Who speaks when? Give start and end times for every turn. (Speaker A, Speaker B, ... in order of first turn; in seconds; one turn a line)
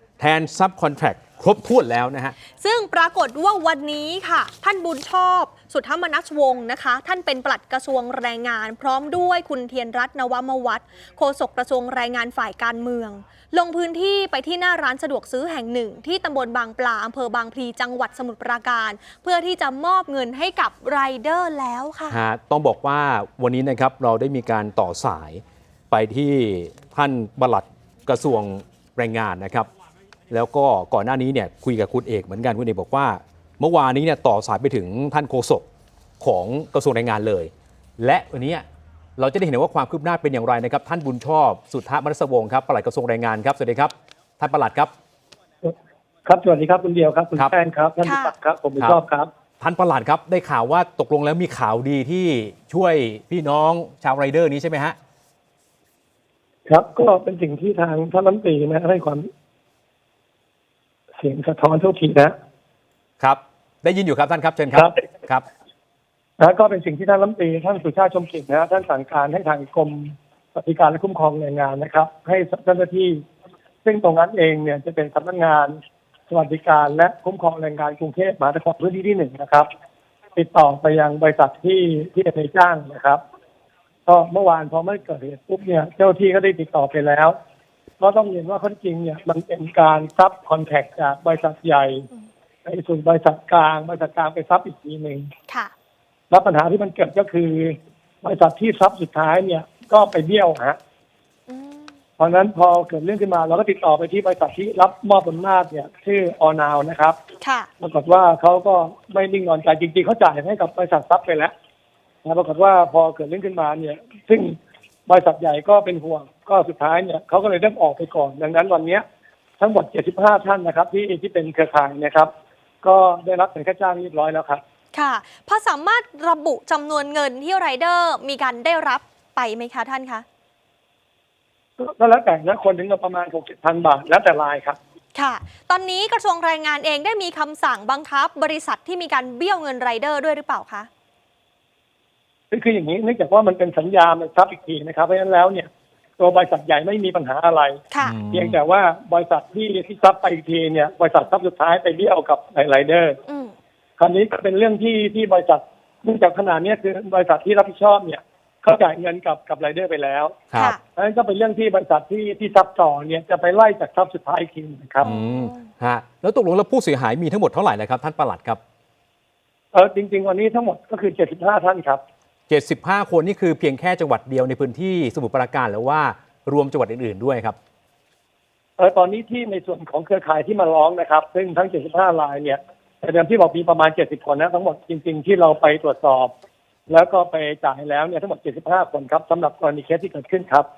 Speaker A: 0.2-2.4
Speaker B: 2.6-22.2
Speaker A: 22.1-29.7
Speaker A: 30.3-35.6
Speaker A: 36.2-38.6
Speaker A: 39.2-44.9
Speaker C: 45.6-49.3
Speaker B: 48.0-48.3
Speaker A: 49.6-55.0
Speaker C: 56.7-59.3
Speaker C: 61.2-62.3
Speaker A: 63.2-65.5
Speaker C: 66.4-73.2
Speaker C: 73.8-75.8
Speaker C: 76.3-79.7
Speaker C: 80.4-83.2
Speaker C: 84.1-87.4
Speaker C: 88.0-92.1
Speaker C: 92.7-95.3
Speaker C: 96.3-100.8
Speaker B: 101.5-101.9
Speaker C: 102.2-107.2
Speaker B: 107.4-107.7
Speaker C: 107.8-111.5
Speaker C: 112.2-119.0
Speaker C: 119.6-122.3
Speaker C: 122.8-124.6
Speaker B: 124.9-130.2
Speaker C: 131.8-134.8
Speaker B: 135.2-140.9
Speaker C: 142.5-153.2
Speaker B: 147.9-148.2
Speaker A: 148.0-148.6
Speaker B: 153.3-153.5
Speaker C: 154.0-160.4
Speaker C: 161.0-165.1
Speaker A: 165.0-168.6
Speaker B: 165.0-165.7
Speaker C: 169.7-172.0
Speaker A: 172.5-177.6
Speaker C: 178.8-186.3
Speaker C: 186.9-190.7